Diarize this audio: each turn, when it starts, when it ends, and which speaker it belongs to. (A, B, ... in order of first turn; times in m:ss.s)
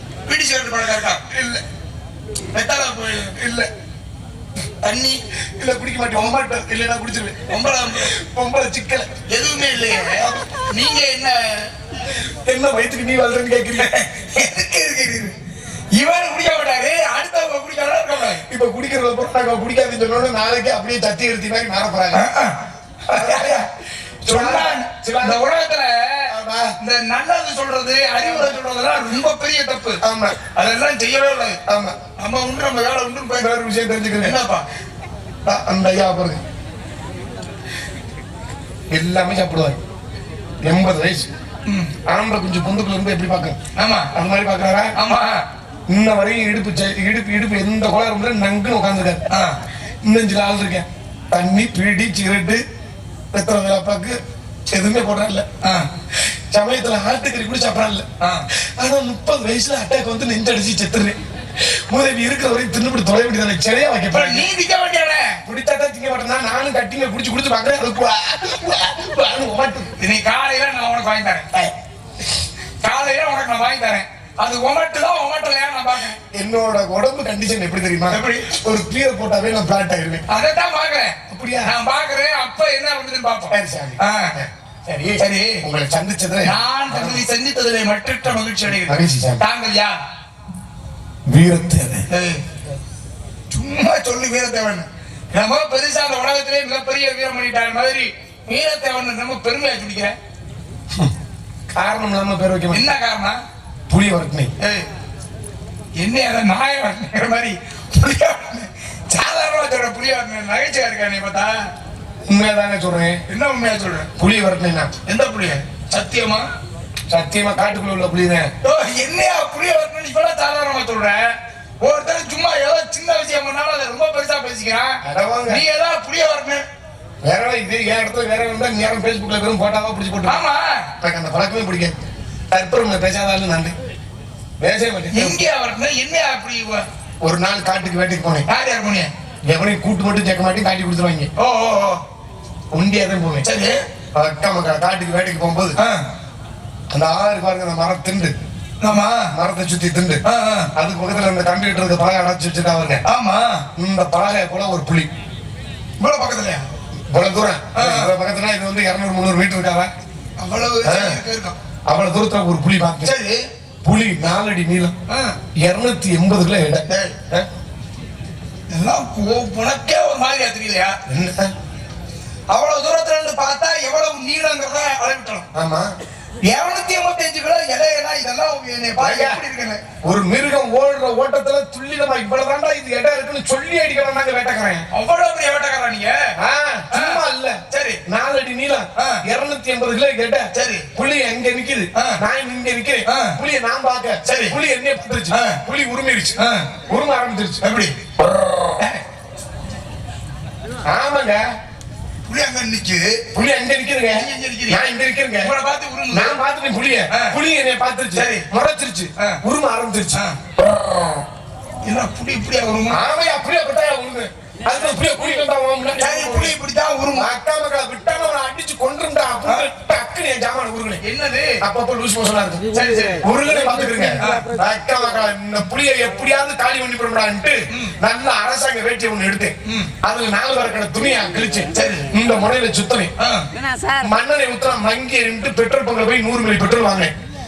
0:00.3-0:01.2 A
0:01.3-0:01.6 B
0:02.5-0:03.4 A
0:03.4-0:03.7 B
0:04.8-0:05.2 A
0:05.6-0:07.5 B
0:07.5-0:08.1 A
0:08.1-0:09.1 B
0:09.3-0:11.7 A
0:10.2-0:10.4 B
0:12.4-0:13.9 B
0:13.8-0:15.4 A
0:15.9-0:18.4 A
0:18.5-0:22.3 B
0:22.1-0:23.7 A
0:23.1-0:23.6 B
0:24.2-0:25.4 B
0:24.3-0:30.0 A
0:26.3-0:26.7 B
0:30.0-0:30.4 B
0:30.5-0:31.6 A
0:31.6-0:32.0 B
0:32.2-0:33.5 A
0:33.4-0:34.4 B
0:34.2-0:34.6 A
0:35.4-0:36.4 B
0:38.9-0:39.8 B
0:40.6-0:41.3 B
0:41.6-0:41.9 A
0:42.0-0:43.6 B
0:43.8-0:44.1 A
0:44.1-0:44.9 B
0:45.0-0:45.4 A
0:45.9-0:49.2 B
0:49.3-0:49.6 A
0:50.0-0:52.6 B
0:53.3-0:54.2 B
0:54.7-0:55.4 B
0:55.6-0:55.9 A
0:56.2-1:04.5 B
0:58.2-0:58.5 A
1:04.1-1:05.4 A
1:05.4-1:09.9 B
1:10.0-1:11.5 A
1:12.8-1:16.2 A
1:16.3-1:20.2 B
1:18.1-1:18.6 A
1:20.3-1:24.4 A
1:21.3-1:21.7 B
1:23.5-1:27.2 B
1:25.2-1:25.6 A
1:26.4-1:30.0 A
1:28.8-1:29.4 B
1:31.3-1:32.0 B
1:32.1-1:32.4 A
1:33.5-1:40.2 A
1:41.7-1:42.9 B
1:42.7-1:43.4 A
1:43.9-1:44.5 B
1:44.6-1:44.9 A
1:46.0-1:51.7 A
1:52.3-1:53.2 B
1:53.3-1:54.1 A
1:54.2-1:54.9 B
1:55.0-1:56.5 A
1:57.1-1:58.5 B
1:58.6-2:06.6 A
2:05.0-2:05.6 B
2:07.2-2:10.4 B
2:10.2-2:10.9 A
2:11.0-2:13.7 B
2:14.6-2:15.4 B
2:15.1-2:16.8 A
2:17.2-2:18.4 B
2:18.5-2:19.1 A
2:19.5-2:21.3 B
2:21.4-2:22.0 A
2:22.7-2:23.4 B
2:23.4-2:23.8 A
2:24.1-2:25.8 B
2:25.8-2:26.0 A
2:26.9-2:28.3 B
2:28.8-2:29.3 A
2:29.3-2:30.2 B
2:30.2-2:30.7 A
2:30.7-2:33.0 B
2:33.0-2:33.6 A
2:33.8-2:35.1 B
2:36.0-2:36.6 A
2:37.1-2:39.9 B
2:37.7-2:38.1 A
2:40.4-2:41.6 A
2:40.8-2:41.2 B
2:41.9-2:43.1 B
2:43.0-2:43.4 A
2:43.8-2:44.9 B
2:45.1-2:45.4 A
2:45.6-2:47.5 B
2:46.9-2:47.2 A
2:48.7-2:51.0 A
2:51.1-2:51.5 B
2:52.5-2:55.4 A
2:55.5-2:55.9 B
2:56.4-2:59.8 A
2:59.0-2:59.4 B
3:00.0-3:04.9 B
3:04.9-3:06.4 A
3:06.4-3:17.6 B
3:06.9-3:08.0 A
3:09.0-3:09.2 A
3:10.5-3:10.9 A
3:11.9-3:12.2 A
3:13.0-3:13.4 A
3:14.2-3:14.6 A
3:15.3-3:15.6 A
3:16.4-3:16.7 A
3:17.6-3:18.0 A
3:20.9-3:21.4 B
3:22.3-3:23.2 A
3:23.3-3:25.5 B
3:24.1-3:24.8 A
3:25.4-3:26.4 A
3:26.1-3:30.2 B
3:27.1-3:27.4 A
3:28.1-3:28.5 A
3:31.8-3:33.0 A
3:32.9-3:36.5 B
3:36.0-3:37.3 A
3:37.1-3:41.0 B
3:41.0-3:41.6 A
3:41.6-3:42.6 B
3:42.7-3:43.2 A
3:43.2-3:53.1 B
3:44.2-3:44.4 A
3:49.6-3:49.9 A
3:51.7-3:52.1 A
3:53.2-3:53.4 A
3:54.0-3:57.1 B